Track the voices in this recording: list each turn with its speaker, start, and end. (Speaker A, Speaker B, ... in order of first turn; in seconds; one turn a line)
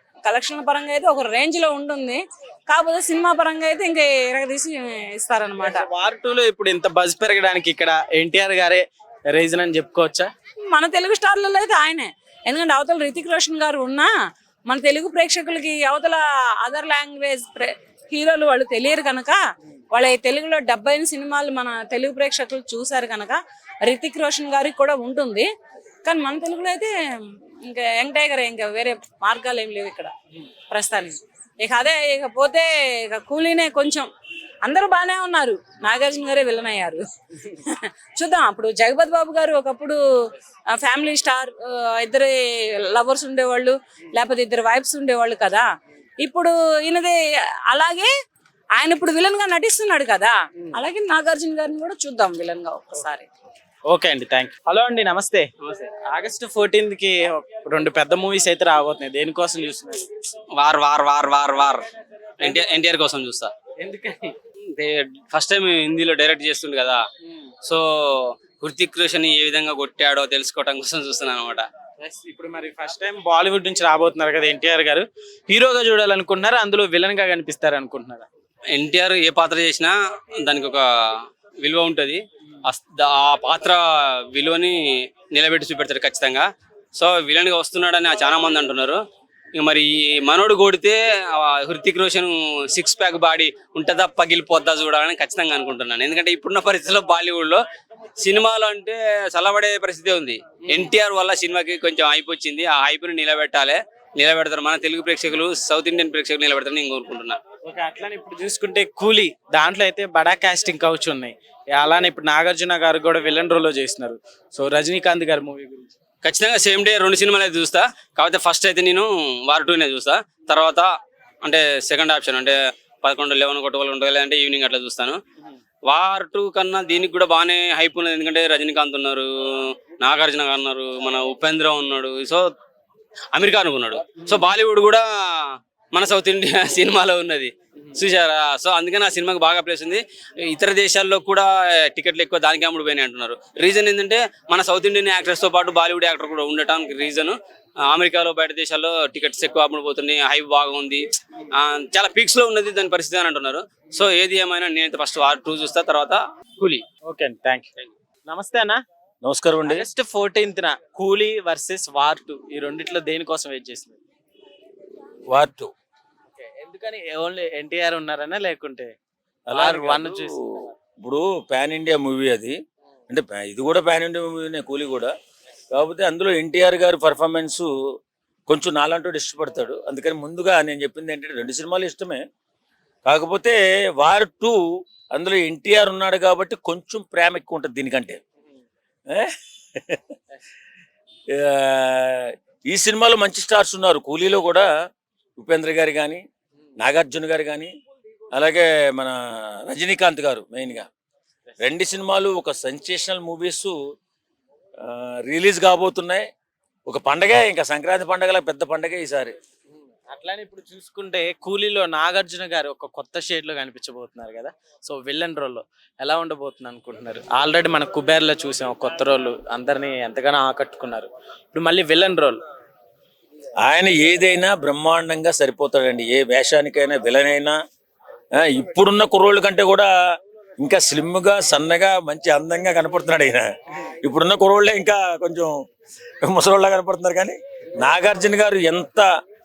Speaker A: 0.2-5.8
Speaker B: 5.6-10.3
Speaker A: 10.7-14.1
Speaker A: 14.7-19.4
Speaker A: 19.9-25.5
Speaker A: 26.0-26.9
Speaker A: 27.6-30.1
Speaker A: 30.7-34.1
Speaker A: 34.6-40.0
Speaker A: 40.7-42.3
Speaker A: 42.9-45.7
Speaker A: 46.2-48.1
Speaker A: 48.8-53.3
Speaker B: 53.9-60.1
Speaker C: 60.6-61.9
Speaker C: 62.4-63.5
Speaker B: 63.8-64.3
Speaker C: 64.7-67.0
Speaker C: 67.6-71.7
Speaker B: 72.0-78.3
Speaker C: 78.7-80.9
Speaker C: 81.6-89.0
Speaker C: 89.5-97.6
Speaker C: 98.2-107.4
Speaker B: 107.7-115.9
Speaker C: 116.2-120.9
Speaker C: 121.4-125.2
Speaker C: 125.9-132.5
Speaker C: 133.3-156.2
Speaker B: 156.6-158.8
Speaker D: 159.2-159.8
Speaker B: 159.6-164.0
Speaker D: 165.3-165.7
Speaker B: 166.4-168.9
Speaker D: 169.5-170.3
Speaker B: 169.5-170.7
Speaker D: 171.0-172.6
Speaker D: 173.1-175.1
Speaker D: 175.7-177.7
Speaker D: 178.5-182.2
Speaker D: 183.0-184.6
Speaker D: 185.1-188.2
Speaker D: 189.1-190.1
Speaker D: 191.3-194.7
Speaker D: 195.4-196.2
Speaker D: 196.8-197.7
Speaker D: 198.3-200.9
Speaker D: 201.6-203.8
Speaker D: 204.8-206.3
Speaker D: 206.9-209.3
Speaker B: 210.1-222.4
Speaker D: 223.6-227.6
Speaker D: 228.4-229.9
Speaker D: 230.6-233.4
Speaker D: 234.0-235.5
Speaker D: 236.2-239.1